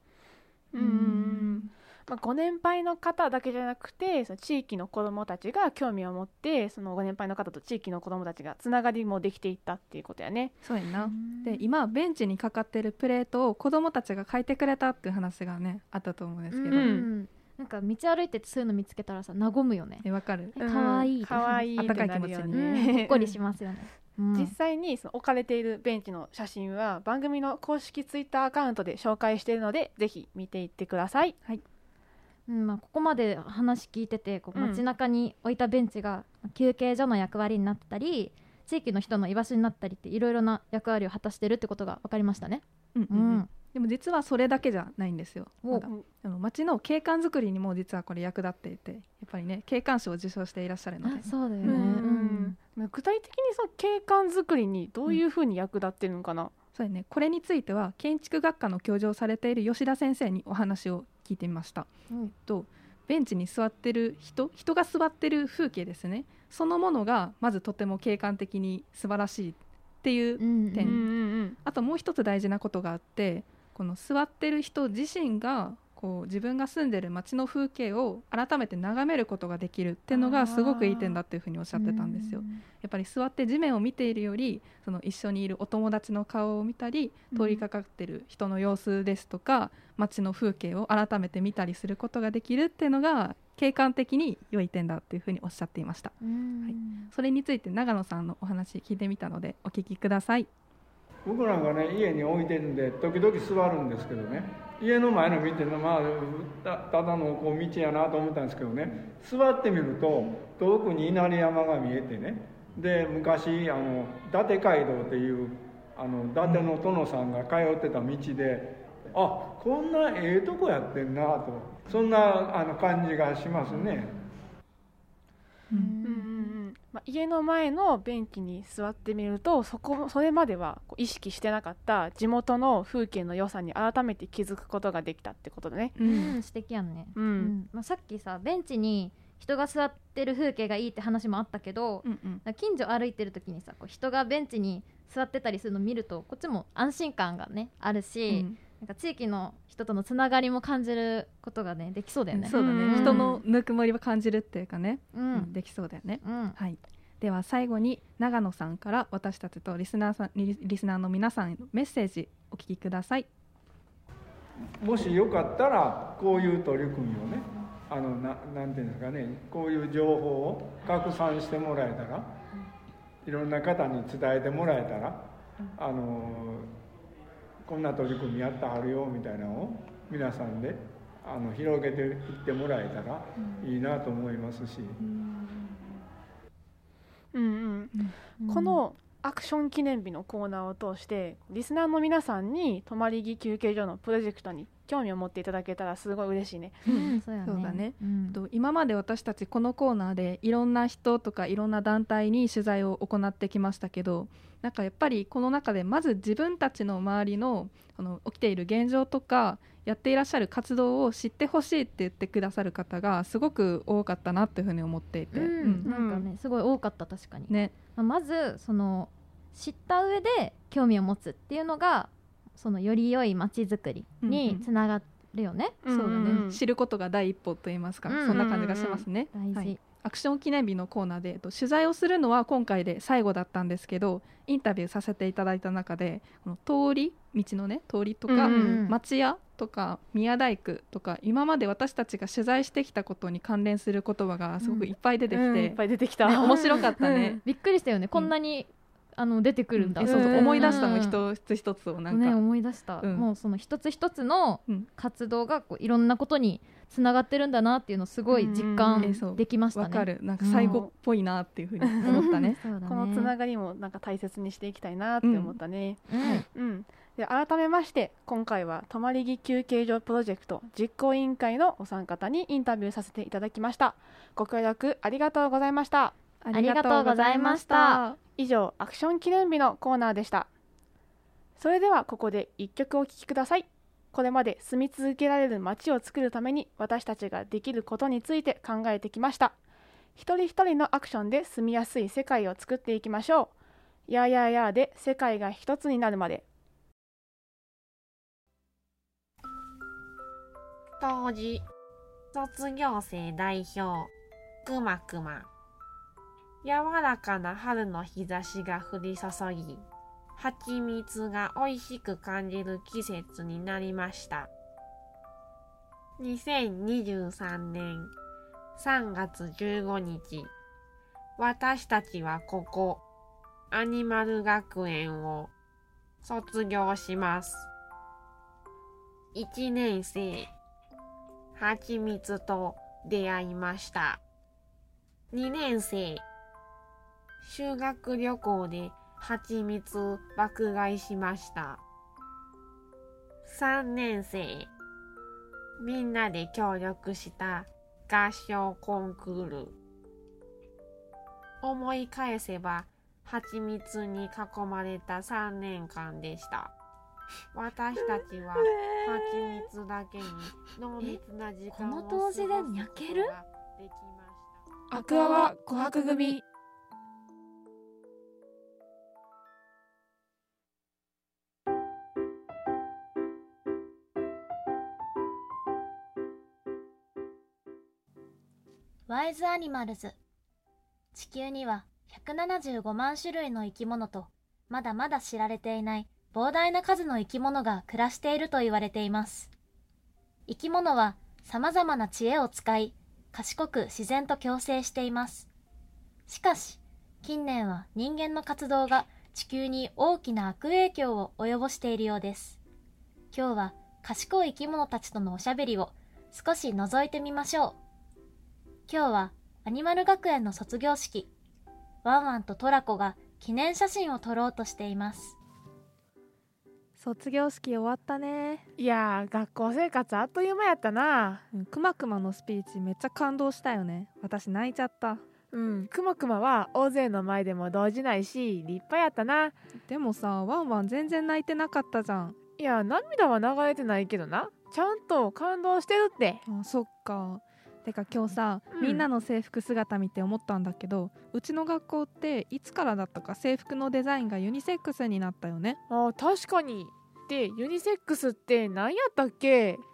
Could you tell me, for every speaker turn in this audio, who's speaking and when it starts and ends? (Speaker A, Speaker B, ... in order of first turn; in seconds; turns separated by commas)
Speaker A: 0.7-10.5, Speaker B: 0.8-1.7, Speaker C: 10.6-17.0, Speaker B: 11.0-11.6, Speaker B: 16.5-24.5, Speaker A: 16.7-17.1, Speaker C: 20.0-20.6, Speaker A: 20.6-23.3, Speaker C: 21.8-22.7, Speaker A: 24.3-31.3, Speaker B: 32.5-43.5, Speaker A: 34.5-34.8, Speaker C: 42.9-51.8, Speaker B: 51.0-52.6, Speaker A: 51.6-56.5, Speaker C: 56.7-61.9, Speaker C: 62.5-100.5, Speaker B: 70.4-71.1, Speaker A: 70.8-71.6, Speaker A: 80.1-81.2, Speaker B: 81.8-82.5, Speaker B: 96.2-97.1, Speaker D: 101.2-124.2, Speaker C: 125.7-126.0, Speaker B: 125.7-126.6, Speaker A: 126.0-135.9, Speaker C: 136.0-136.4, Speaker B: 136.0-153.3, Speaker A: 137.2-137.5, Speaker C: 142.0-142.4, Speaker C: 148.3-148.6, Speaker C: 152.3-163.3, Speaker A: 152.5-153.4, Speaker B: 155.1-155.5, Speaker B: 156.2-156.6, Speaker D: 164.7-172.4, Speaker D: 173.2-176.8, Speaker D: 177.6-185.0, Speaker A: 187.3-187.9, Speaker B: 188.4-188.8, Speaker A: 188.4-197.2, Speaker C: 196.8-215.9, Speaker B: 196.9-198.4, Speaker B: 215.4-225.8, Speaker A: 215.7-216.2, Speaker C: 217.5-217.7, Speaker C: 224.2-224.6, Speaker A: 225.8-226.6, Speaker C: 225.9-247.4, Speaker B: 228.1-228.8, Speaker A: 228.3-229.0, Speaker B: 229.3-229.8, Speaker A: 238.3-238.8, Speaker B: 238.4-239.0, Speaker A: 245.3-247.4, Speaker B: 247.4-251.2, Speaker C: 249.8-252.4, Speaker A: 250.0-251.0, Speaker B: 252.1-260.8, Speaker C: 253.0-253.3, Speaker A: 258.3-259.2, Speaker C: 259.0-262.6, Speaker A: 261.8-262.2, Speaker B: 262.0-263.3, Speaker A: 262.8-276.1, Speaker C: 265.2-265.6, Speaker B: 266.1-266.4, Speaker C: 276.4-278.2, Speaker B: 276.5-278.0, Speaker A: 278.4-280.5, Speaker A: 281.6-289.6, Speaker A: 290.1-293.5, Speaker A: 294.1-296.4, Speaker E: 301.0-301.6, Speaker E: 302.3-304.1, Speaker E: 304.6-305.5, Speaker E: 306.6-309.8, Speaker E: 310.4-314.5, Speaker E: 316.2-318.1, Speaker E: 318.8-320.5, Speaker E: 321.4-323.0, Speaker E: 323.7-325.5, Speaker E: 326.2-327.7, Speaker E: 329.3-330.5, Speaker E: 331.5-334.2, Speaker E: 335.3-336.2, Speaker E: 337.4-341.8, Speaker E: 343.4-344.7, Speaker E: 345.8-349.7, Speaker E: 351.6-356.7, Speaker E: 357.5-364.6, Speaker F: 358.8-359.6, Speaker F: 361.0-363.4, Speaker A: 364.9-366.4, Speaker G: 364.9-366.4, Speaker F: 379.1-380.1, Speaker F: 381.1-389.5, Speaker F: 390.5-395.5, Speaker F: 396.3-402.6, Speaker F: 403.3-407.8, Speaker F: 408.9-411.3, Speaker F: 412.0-415.4, Speaker C: 417.0-418.6, Speaker G: 418.8-421.4, Speaker C: 421.5-425.2, Speaker G: 425.5-429.5, Speaker C: 429.9-432.4, Speaker G: 432.6-436.4, Speaker C: 436.5-445.8, Speaker G: 438.7-439.1, Speaker G: 445.9-449.8